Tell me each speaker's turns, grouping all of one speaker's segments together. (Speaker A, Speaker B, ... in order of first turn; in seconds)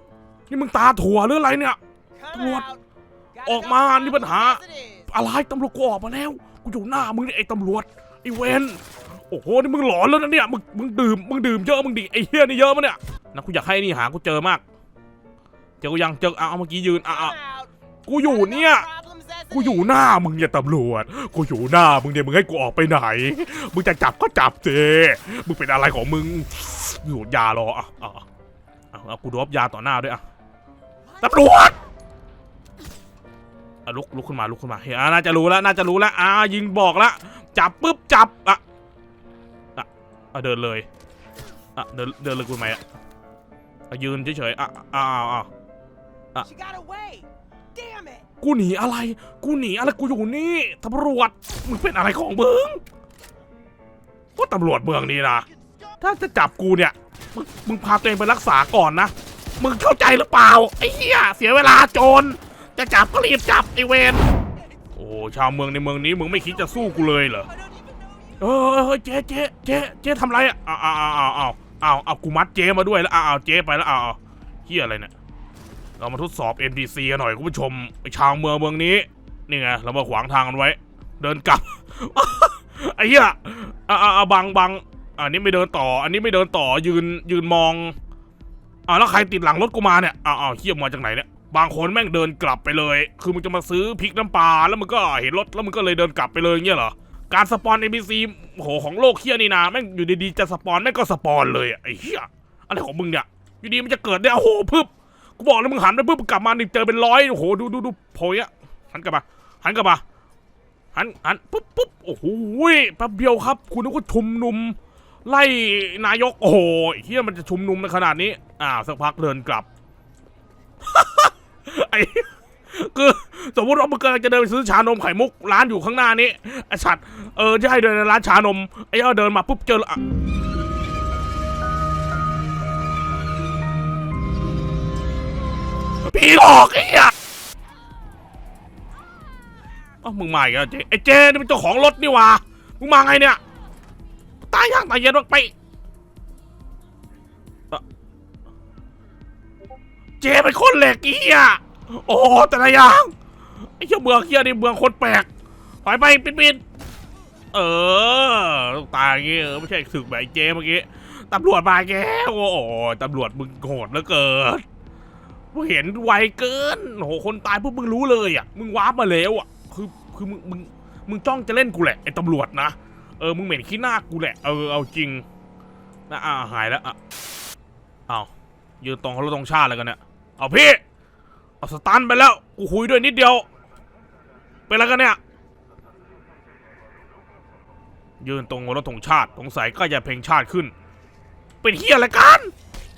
Speaker A: 0.5-1.8, 2.3-2.6, 3.4-14.6, 15.8-17.4, 18.0-18.9, 19.5-28.2, 28.9-30.2, 31.2-31.8, 33.9-38.6, 39.8-40.9, 41.8-42.8, 43.9-45.5, 48.4-52.8, 54.4-55.5, 56.0-64.3, 64.9-67.5, 68.4-75.1, 76.0-87.9, 88.9-110.0, 110.9-119.7, 120.8-130.0, 136.0-137.1, 140.0-143.4, 144.5-145.5, 150.2-153.1, 153.8-155.3, 155.8-156.6, 157.5-164.6, 165.5-175.2, 176.1-177.0, 178.8-180.8, 181.6-183.4, 184.7-185.2, 188.2-190.7, 191.6-192.5
Speaker B: 2.2-2.8, 3.4-5.0, 17.2-17.7, 18.3-19.8, 46.5-48.2, 67.5-68.3